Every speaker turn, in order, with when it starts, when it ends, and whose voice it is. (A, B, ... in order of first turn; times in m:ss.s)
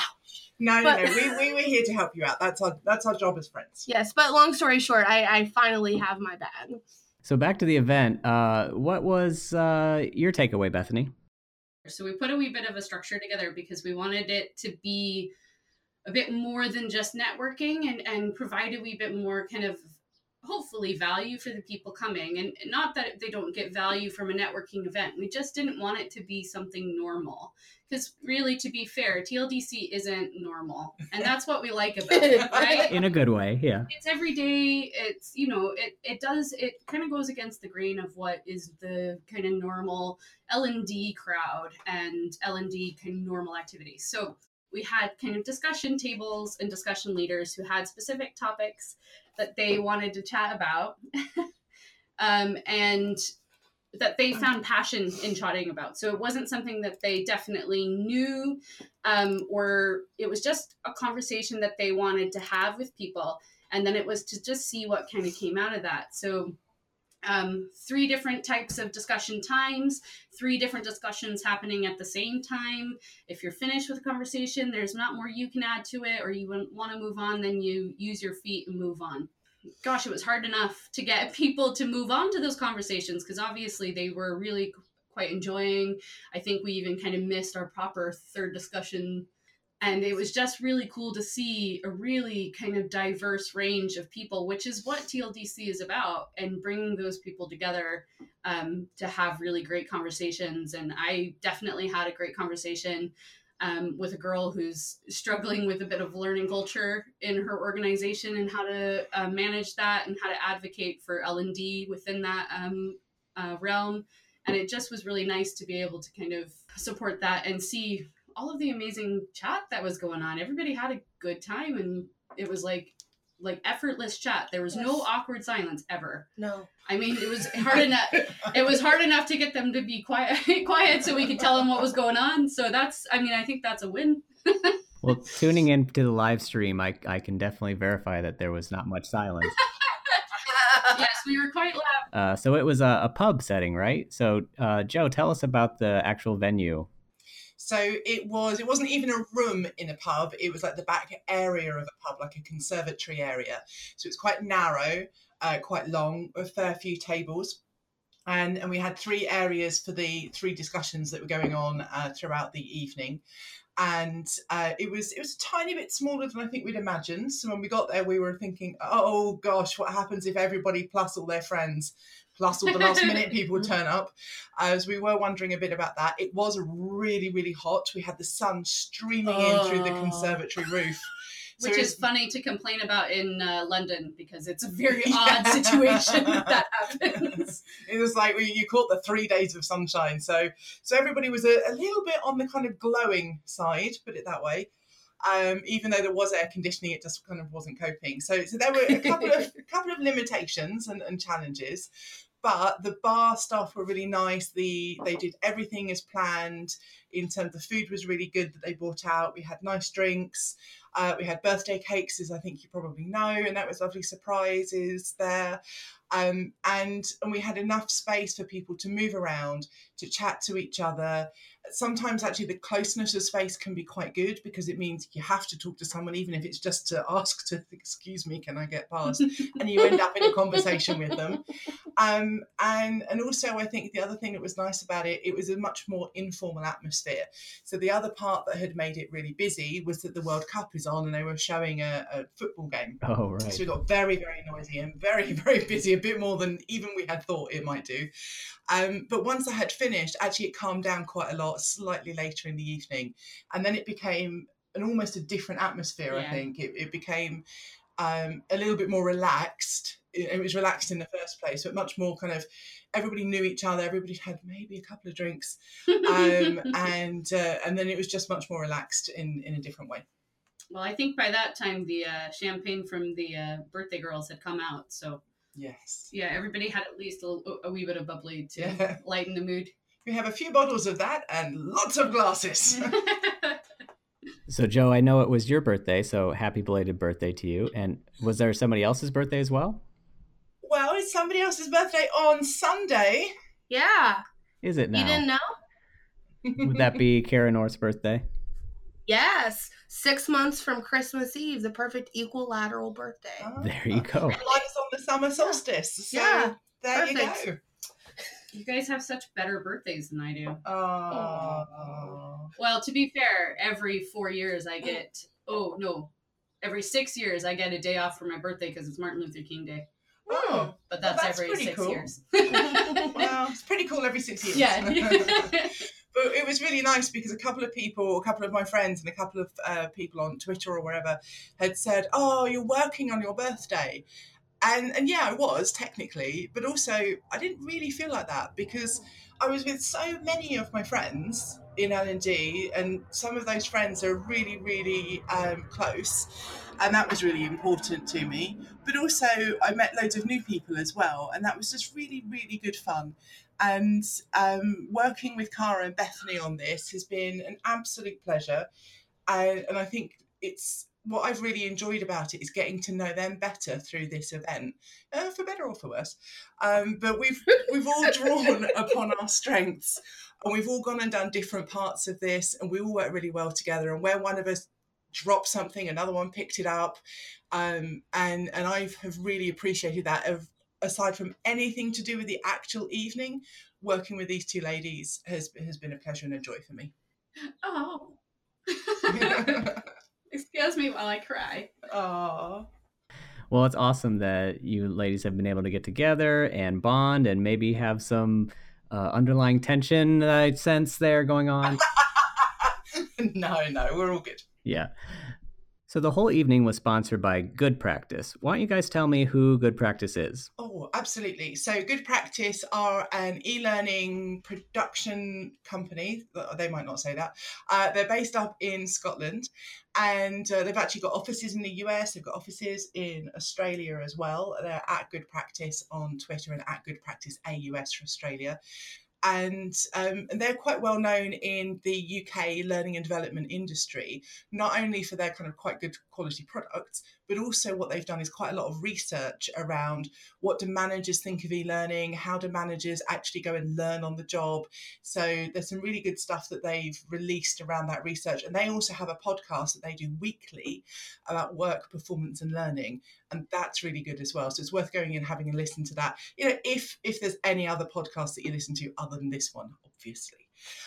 0:00.6-0:03.9 A
0:00.8-0:01.4 B
0:03.9-0:06.8 B
0:07.2-0:11.1 C
0:11.9-0:15.3 D
0:16.1-0:33.0 D
0:32.2-0:32.8 B
0:32.4-0:32.7 A
0:32.7-0:33.9 C
0:33.9-0:51.5 D
0:52.2-0:53.2 D
0:53.9-1:06.6 D
1:07.2-1:19.3 D
1:19.8-1:29.3 D
1:29.8-2:06.3 D
2:04.7-2:05.1 B
2:06.4-2:06.7 B
2:06.9-2:14.8 D
2:15.0-2:19.6 C
2:19.8-2:22.0 D
2:22.1-2:26.9 C
2:27.6-2:37.6 A
2:38.3-2:43.2 A
2:43.8-3:02.0 A
2:59.3-3:00.4 D
3:01.6-3:07.7 D
3:04.9-3:06.5 A
3:07.8-3:14.7 A
3:15.2-3:21.9 A
3:22.4-3:35.6 A
3:36.1-3:51.4 A
3:52.0-4:08.1 A
4:03.0-4:03.6 C
4:08.7-4:17.4 A
4:16.1-4:16.5 D
4:18.0-4:30.0 A
4:26.0-4:26.7 D
4:30.7-4:35.2 D
4:35.6-4:36.1 A
4:36.1-4:39.7 D
4:38.6-4:39.0 A
4:40.0-4:42.9 A
4:42.8-4:43.6 D
4:44.5-4:49.8 C
4:50.6-4:53.3 A
4:53.7-4:54.2 B
4:54.6-4:55.3 C
4:54.9-4:55.5 B
4:56.4-4:56.9 A
4:56.6-4:58.2 C
4:59.1-5:03.5 B
5:03.4-5:07.6 A
5:03.6-5:04.4 C
5:06.1-5:07.4 B
5:08.5-5:10.6 D
5:10.6-5:12.5 A
5:11.1-5:11.7 B
5:12.6-5:19.9 D
5:20.3-5:22.1 A
5:20.3-5:20.7 B
5:20.9-5:23.2 D
5:22.8-5:23.1 B
5:23.0-5:25.5 A
5:24.5-5:25.8 D
5:26.1-5:34.0 A
5:34.6-5:58.7 A
5:59.3-6:17.0 A
6:17.5-6:26.9 A
6:27.6-6:29.7 D
6:29.1-6:29.8 A
6:30.3-6:31.7 D
6:31.9-6:32.7 A
6:33.5-6:41.8 C
6:41.9-6:44.4 A
6:44.6-6:45.3 C
6:45.9-6:50.5 C
6:50.6-7:08.6 A
7:09.2-7:40.5 A